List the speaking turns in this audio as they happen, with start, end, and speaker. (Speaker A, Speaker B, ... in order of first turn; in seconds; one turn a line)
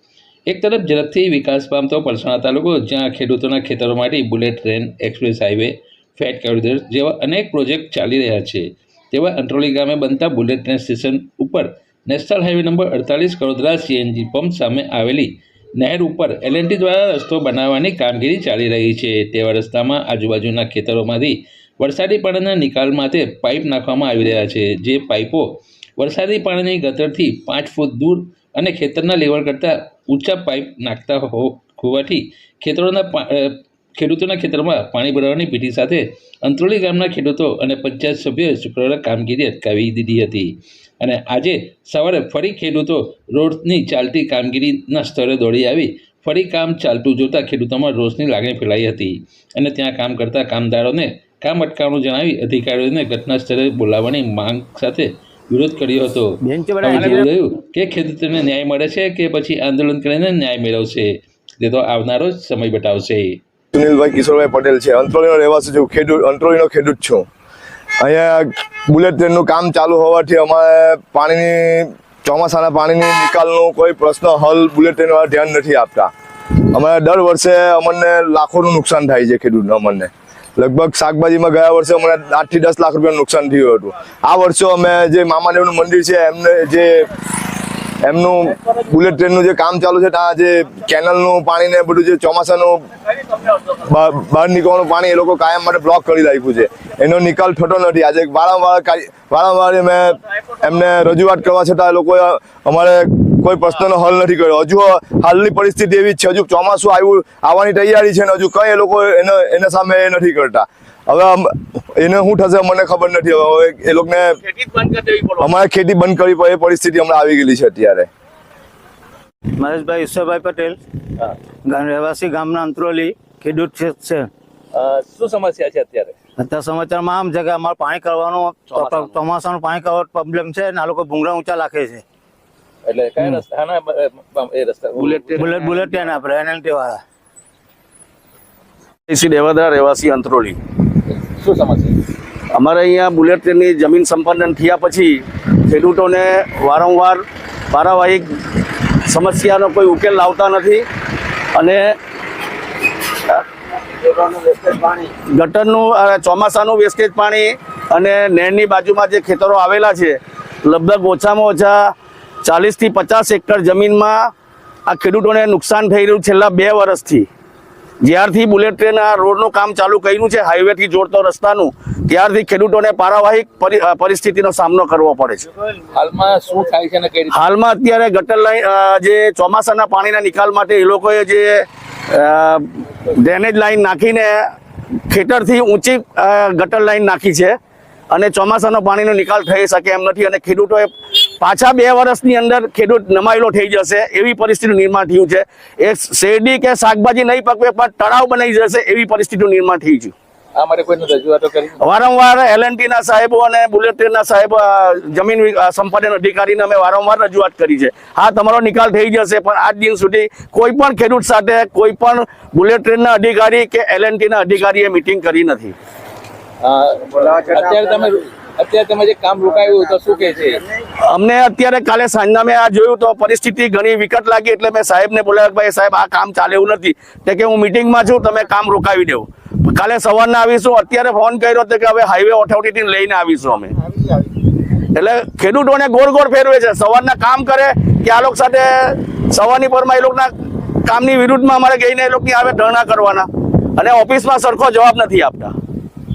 Speaker A: 0.5-56.3
Speaker B: 56.4-57.3
Speaker A: 56.8-63.4
Speaker C: 63.7-67.3
Speaker C: 68.0-76.1
Speaker C: 76.7-87.1
Speaker C: 88.0-92.9
Speaker C: 93.6-114.4
Speaker D: 114.5-115.4
Speaker C: 115.4-118.1
Speaker B: 119.6-120.8
Speaker B: 121.7-124.3
Speaker E: 124.8-126.1
Speaker B: 126.4-132.0
Speaker E: 128.8-129.1
Speaker E: 132.9-135.3
Speaker D: 135.0-135.8
Speaker B: 135.3-137.0
Speaker D: 139.1-140.6
Speaker E: 141.4-142.0
Speaker D: 142.5-148.3
Speaker D: 149.0-150.8
Speaker D: 151.6-151.9
Speaker D: 154.0-161.9
Speaker D: 162.4-164.3
Speaker D: 164.9-167.3
Speaker D: 168.0-175.5
Speaker A: 176.0-177.2
Speaker E: 176.0-177.3
Speaker D: 177.3-184.4
Speaker D: 185.1-187.6
Speaker D: 188.1-200.1
Speaker E: 200.6-201.8
Speaker D: 201.8-215.8
Speaker E: 216.7-220.7
Speaker A: 218.9-219.2
Speaker D: 221.0-233.8
Speaker D: 234.9-240.3
Speaker D: 240.8-245.5